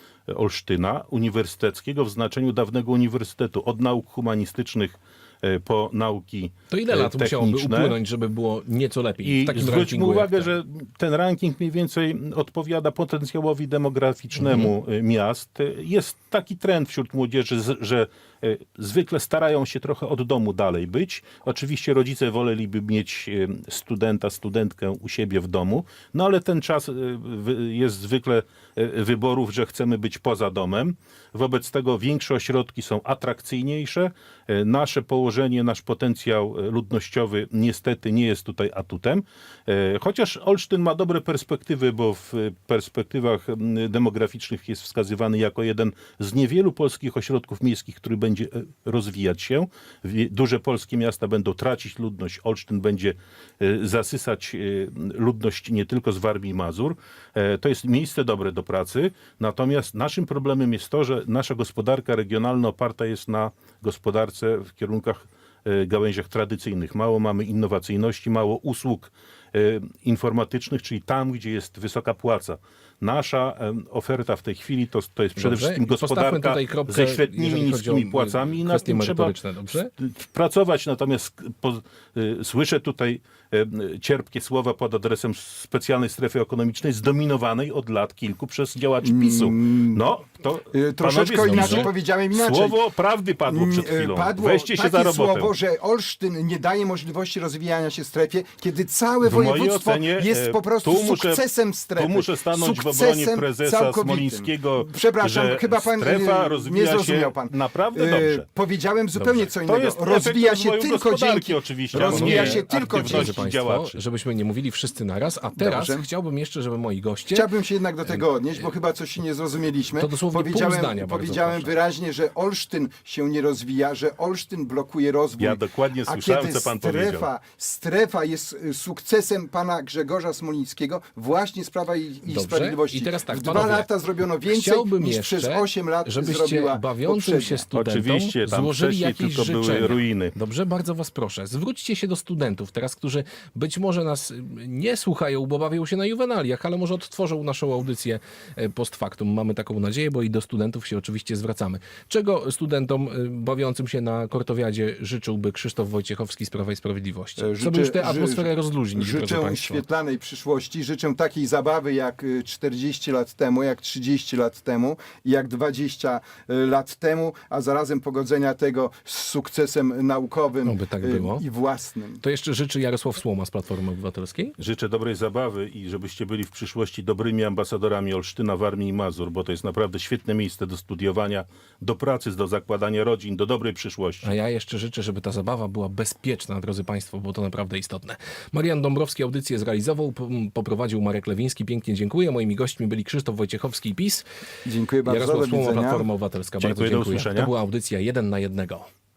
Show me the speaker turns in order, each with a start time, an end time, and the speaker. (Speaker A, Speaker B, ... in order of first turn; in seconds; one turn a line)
Speaker A: 0.3-8.0
Speaker B: 6.7-10.5
Speaker A: 9.2-95.5
Speaker B: 14.4-14.7
Speaker B: 75.4-79.9
Speaker C: 89.0-90.0
Speaker C: 90.7-92.8
Speaker C: 93.5-113.4
Speaker A: 99.2-101.4
Speaker A: 102.0-108.4
Speaker A: 109.2-114.0
Speaker B: 111.9-117.5
Speaker C: 115.5-116.0
Speaker C: 117.3-137.7
Speaker B: 120.0-121.7
Speaker A: 125.4-127.3
Speaker B: 132.3-133.9
Speaker B: 134.4-159.8
Speaker A: 137.7-140.3
Speaker C: 157.4-172.2
Speaker B: 170.7-171.4
Speaker B: 172.2-174.5
Speaker A: 174.6-184.3
Speaker B: 184.2-194.2
Speaker C: 194.7-196.1
Speaker B: 195.1-198.9
Speaker A: 196.6-197.5